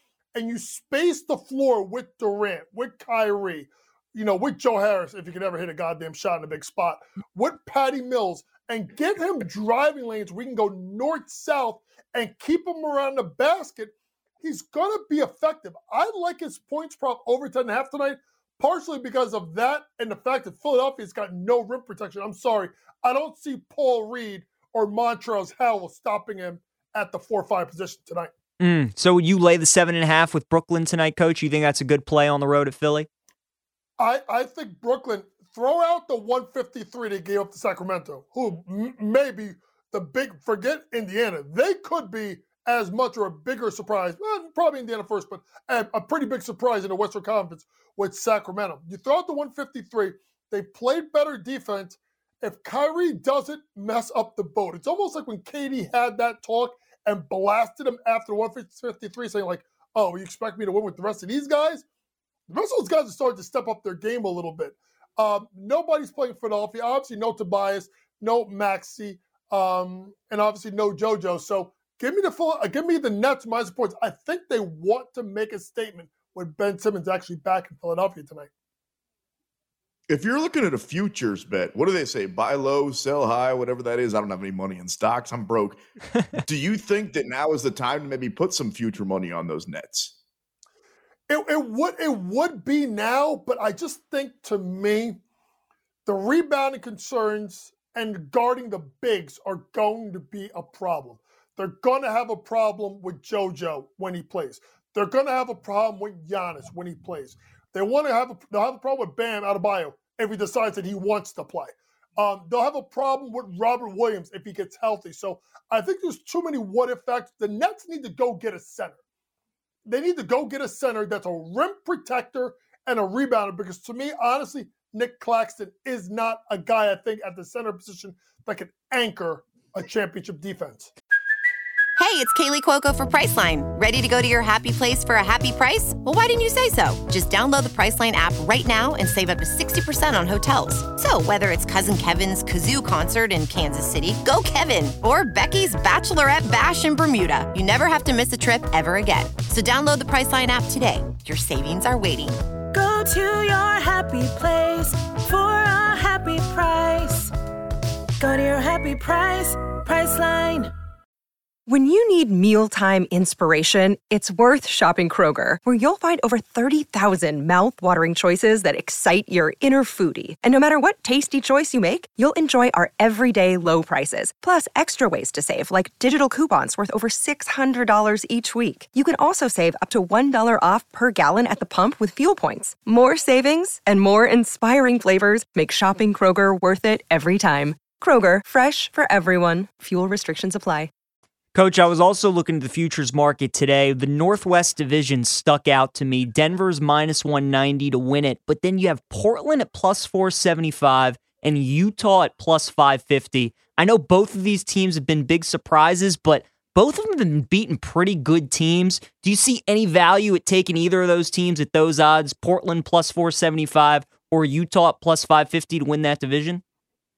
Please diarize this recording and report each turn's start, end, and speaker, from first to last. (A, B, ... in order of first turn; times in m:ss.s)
0:00.3-0:28.3 A
0:28.6-0:33.1 B
0:34.0-1:01.8 A
1:02.5-1:18.5 A
1:20.1-1:25.8 C
1:26.4-1:30.1 C
1:31.3-1:35.2 A
1:36.1-1:59.0 A
1:59.9-2:10.9 A
2:12.0-2:32.4 D
2:32.8-2:37.2 E
2:38.2-2:40.7 E
2:41.7-3:10.9 F
3:11.5-3:36.6 B